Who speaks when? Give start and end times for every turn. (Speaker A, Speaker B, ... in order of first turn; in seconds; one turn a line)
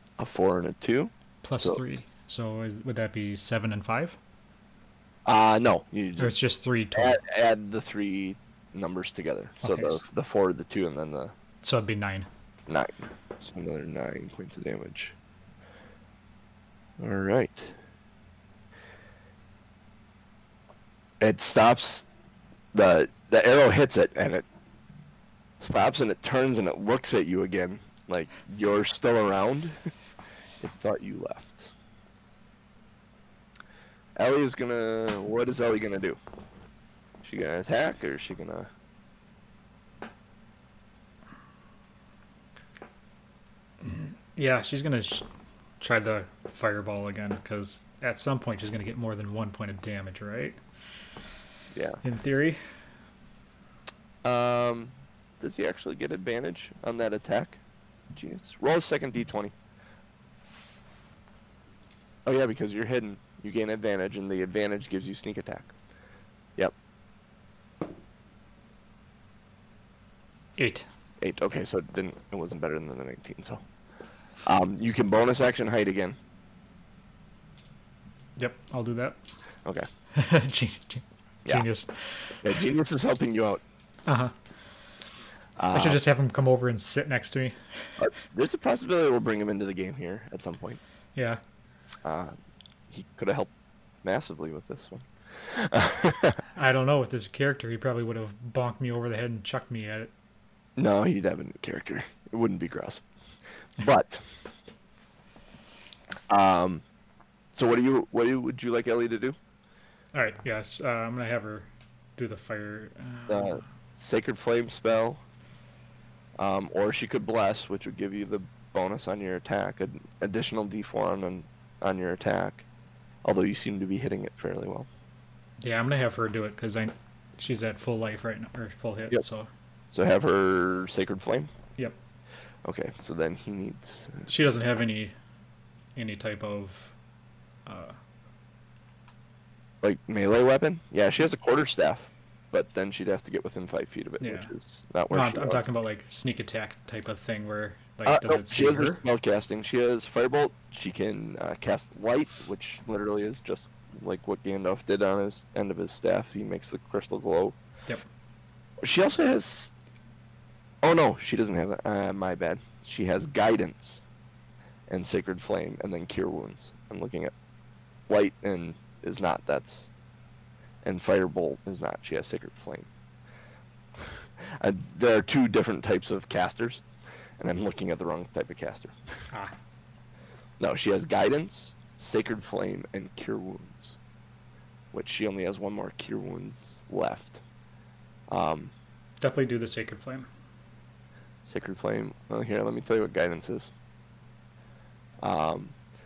Speaker A: 0.2-1.8
Speaker B: 1.4-4.2
Speaker A: 5.2-6.4
Speaker B: 6.2-7.2
Speaker A: 6.9-11.3
Speaker B: 9.6-10.0
Speaker B: 11.6-12.3
Speaker A: 12.7-15.2
Speaker A: 17.0-17.8
Speaker A: 21.2-22.1
Speaker A: 22.7-24.4
Speaker A: 25.6-29.9
Speaker A: 30.6-31.7
Speaker A: 34.2-36.2
Speaker A: 37.2-38.7
Speaker B: 43.8-45.3
Speaker B: 45.8-50.6
Speaker A: 51.7-52.0
Speaker B: 52.0-52.7
Speaker A: 54.2-57.6
Speaker A: 58.1-59.5
Speaker A: 62.2-65.7
Speaker B: 70.6-70.9
Speaker A: 71.2-73.6
Speaker A: 74.4-76.2
Speaker B: 78.4-79.2
Speaker B: 80.1-82.5
Speaker A: 82.4-83.6
Speaker B: 84.0-84.3
Speaker A: 85.6-86.0
Speaker B: 85.7-88.0
Speaker A: 88.0-90.8
Speaker B: 91.1-91.4
Speaker A: 92.0-92.4
Speaker A: 92.9-93.5
Speaker A: 94.0-96.4
Speaker B: 96.5-100.1
Speaker A: 100.8-103.0
Speaker A: 103.8-104.5
Speaker A: 106.3-106.8
Speaker A: 107.5-109.3
Speaker B: 110.1-113.6
Speaker A: 113.3-115.2
Speaker A: 116.4-122.7
Speaker A: 123.2-124.9
Speaker B: 125.6-129.5
Speaker A: 129.9-131.5
Speaker A: 132.7-134.3
Speaker B: 134.3-135.1
Speaker B: 135.9-136.9
Speaker B: 137.7-138.0
Speaker A: 139.8-145.7
Speaker B: 144.2-144.5
Speaker B: 145.1-149.0
Speaker A: 148.1-157.6
Speaker A: 158.8-159.7
Speaker A: 160.8-164.0
Speaker A: 164.9-167.3
Speaker A: 168.1-169.9
Speaker A: 170.8-172.9
Speaker A: 174.0-176.8
Speaker A: 177.4-179.3
Speaker A: 180.6-184.0
Speaker A: 184.9-187.4
Speaker A: 188.3-188.7
Speaker B: 189.2-190.3
Speaker A: 191.4-193.7
Speaker A: 195.2-195.8